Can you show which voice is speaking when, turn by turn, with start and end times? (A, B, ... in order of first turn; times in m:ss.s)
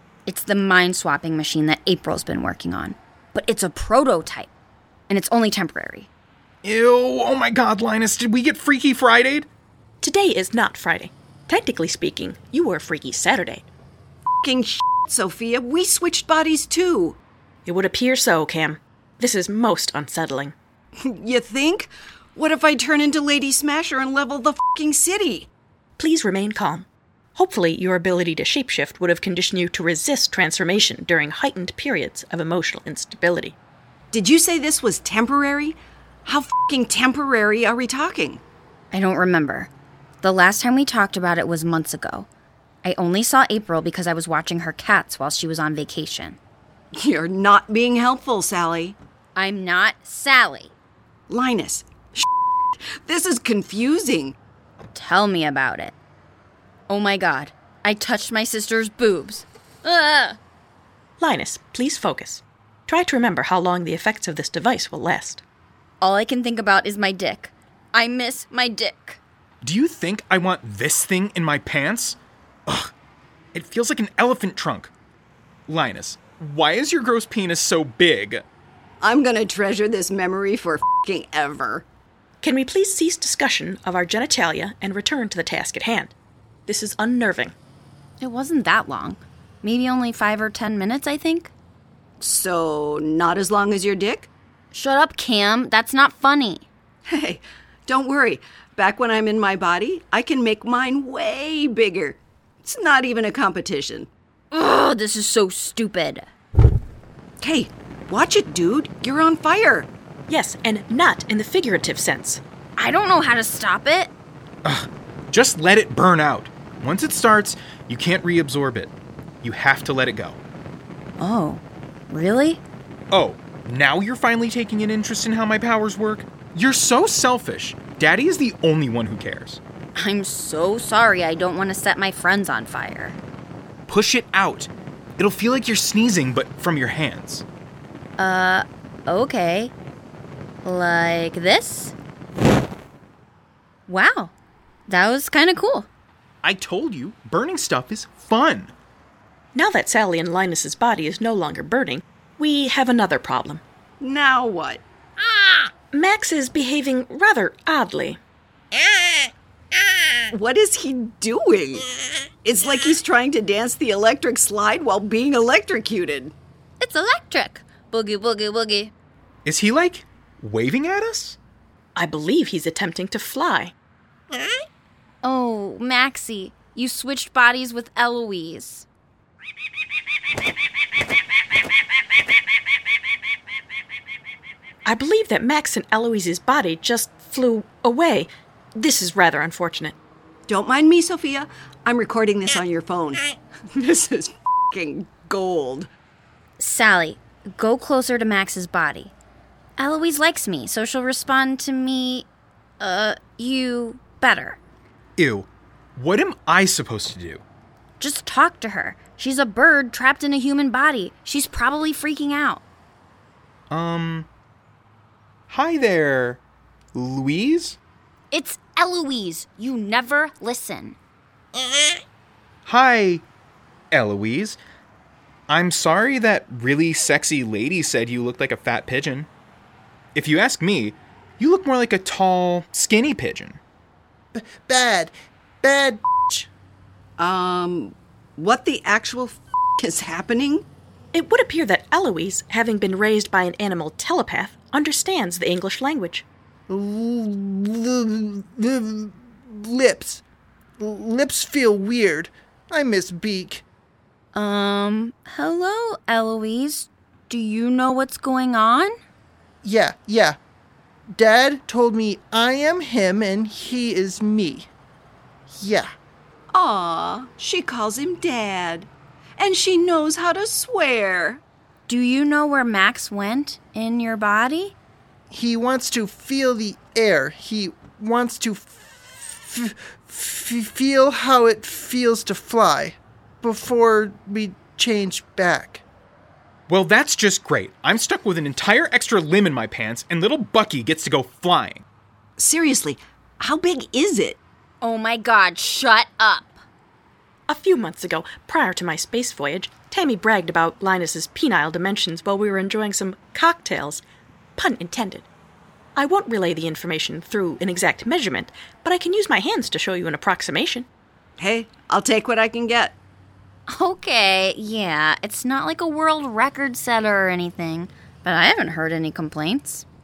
0:00.2-0:04.5 A
0:05.1-0:06.1 A
0:06.6-0:09.5 B
0:10.0-0:13.6 C
0:14.4-0:17.2 D
0:17.6-0:20.5 C
0:21.0-0:25.5 D
0:26.0-0:33.6 C
0:34.1-0:38.4 D
0:38.9-0:39.7 A
0:40.2-0:42.3 A
0:42.8-0:46.4 A
0:47.0-0:49.0 D
0:49.4-0:50.7 A
0:51.3-0:52.3 D
0:53.0-0:54.4 D
0:54.9-0:55.9 A
0:56.9-1:00.4 A
1:01.2-1:05.4 C
1:06.0-1:09.2 A
1:09.6-1:12.9 B
1:13.5-1:14.9 B
1:15.7-1:18.4 B
1:19.0-1:21.8 D
1:22.4-1:26.1 C
1:26.7-1:27.5 C
1:28.2-1:31.5 A
1:32.2-1:34.3 D
1:34.7-1:36.6 A
1:37.1-1:44.1 D
1:44.5-1:46.2 A
1:47.4-1:49.9 D
1:50.3-1:52.4 C
1:52.8-1:54.1 A
1:54.6-2:00.4 B
2:01.2-2:02.6 A
2:03.1-2:09.6 B
2:09.9-2:13.2 A
2:13.9-2:17.4 B
2:18.2-2:19.7 A
2:20.6-2:21.9 A
2:23.9-2:24.3 A
2:24.9-2:25.9 A
2:26.4-2:28.7 B
2:29.5-2:33.6 C
2:34.0-2:34.8 D
2:35.9-2:38.2 C
2:40.3-2:41.9 D
2:42.4-2:46.3 D
2:46.8-2:48.9 A
2:49.4-2:51.4 B
2:52.0-2:53.7 C
2:55.2-2:58.8 A
3:04.8-3:10.0 C
3:10.5-3:15.9 D
3:16.6-3:19.1 A
3:19.8-3:22.3 A
3:22.8-3:24.6 A
3:25.2-3:27.4 B
3:28.0-3:32.6 A
3:33.7-3:34.3 B
3:35.5-3:36.4 B
3:36.9-3:37.8 B
3:38.3-3:41.0 A
3:42.6-3:43.2 B
3:43.9-3:44.6 B
3:45.5-3:49.3 B
3:50.1-3:53.6 B
3:54.3-3:56.5 E
3:57.2-4:00.6 D
4:01.1-4:06.2 C
4:06.7-4:10.2 E
4:10.8-4:13.6 E
4:14.3-4:18.9 A
4:19.6-4:20.4 E
4:21.1-4:24.7 E
4:25.5-4:25.9 E
4:26.5-4:28.9 D
4:29.4-4:31.4 D
4:31.9-4:34.7 A
4:35.3-4:45.8 E
4:46.7-4:51.8 B
4:52.4-4:54.4 D
4:54.8-4:56.6 A
4:57.5-5:04.0 C
5:04.6-5:05.3 C
5:06.0-5:10.9 C
5:11.4-5:13.0 D
5:13.7-5:19.8 A